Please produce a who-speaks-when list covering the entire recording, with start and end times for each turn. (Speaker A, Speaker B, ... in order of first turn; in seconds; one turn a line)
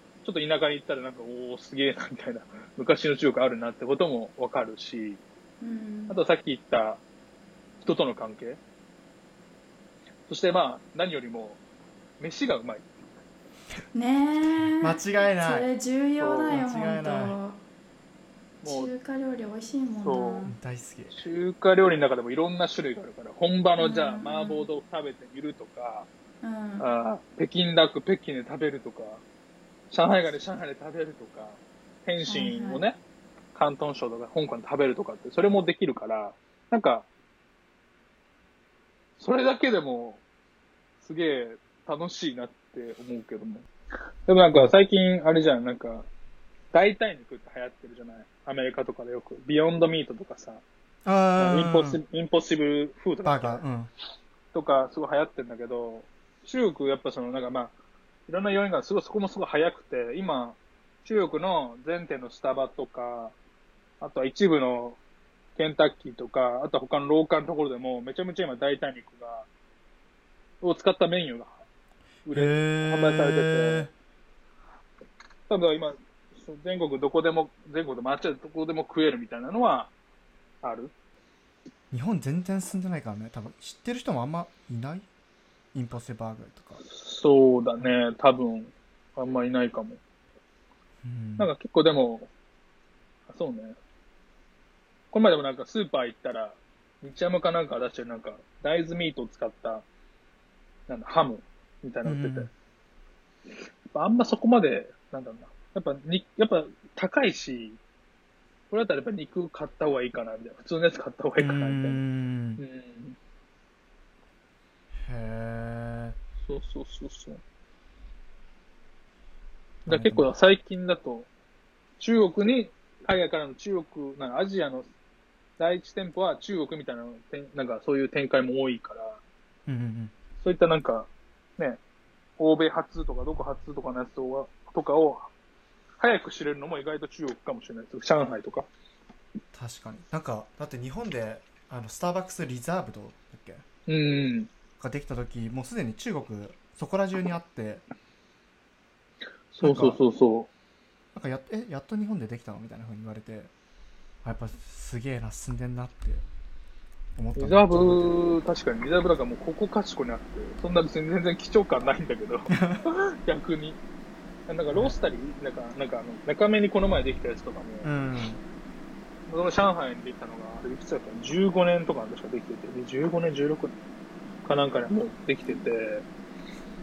Speaker A: 0.2-5.2
Speaker B: 5.6-6.2
Speaker A: 6.1-7.0
Speaker A: 7.8-8.6
Speaker A: 10.3-11.6
Speaker A: 12.2-12.9
Speaker B: 13.9-17.6
Speaker C: 14.8-15.7
Speaker A: 16.2-16.6
Speaker C: 16.5-17.4
Speaker A: 18.6-18.9
Speaker B: 18.6-20.6
Speaker A: 20.0-20.5
Speaker C: 20.4-21.2
Speaker A: 21.1-26.1
Speaker B: 23.8-24.7
Speaker B: 26.4-26.9
Speaker A: 26.8-29.2
Speaker A: 29.9-33.0
Speaker B: 32.3-32.8
Speaker A: 33.5-37.1
Speaker A: 39.2-40.2
Speaker A: 41.0-43.7
Speaker A: 44.3-46.1
Speaker A: 46.7-50.6
Speaker C: 51.0-52.0
Speaker A: 51.4-53.6
Speaker C: 53.2-53.9
Speaker A: 54.5-57.7
Speaker A: 58.3-63.4
Speaker A: 64.0-65.0
Speaker A: 65.6-69.5
Speaker A: 70.6-71.6
Speaker A: 72.3-73.9
Speaker C: 72.3-73.9
Speaker A: 75.5-79.9
Speaker A: 80.6-80.9
Speaker C: 81.9-85.1
Speaker C: 85.7-86.8
Speaker A: 86.8-90.0
Speaker C: 91.0-91.5
Speaker A: 91.4-92.3
Speaker A: 93.3-93.8
Speaker A: 95.1-99.8
Speaker A: 100.9-102.5
Speaker C: 102.0-102.5
Speaker A: 103.9-107.8
Speaker A: 108.7-112.0
Speaker C: 111.4-112.6
Speaker A: 112.6-113.2
Speaker C: 114.9-116.2
Speaker A: 116.4-117.4
Speaker A: 119.9-121.3
Speaker C: 119.9-120.2
Speaker A: 122.0-124.9
Speaker A: 125.6-129.2
Speaker C: 129.7-130.1
Speaker A: 130.4-131.8
Speaker A: 132.4-135.3
Speaker A: 136.0-138.7
Speaker C: 139.5-143.6
Speaker A: 143.9-144.5
Speaker C: 144.8-147.8
Speaker A: 149.5-150.5
Speaker C: 149.6-150.0
Speaker C: 151.1-153.5
Speaker C: 154.2-156.2
Speaker C: 157.2-158.3
Speaker A: 157.4-163.8
Speaker C: 162.5-162.8
Speaker A: 164.5-167.9
Speaker C: 167.8-168.4
Speaker A: 169.3-173.8
Speaker A: 174.5-176.1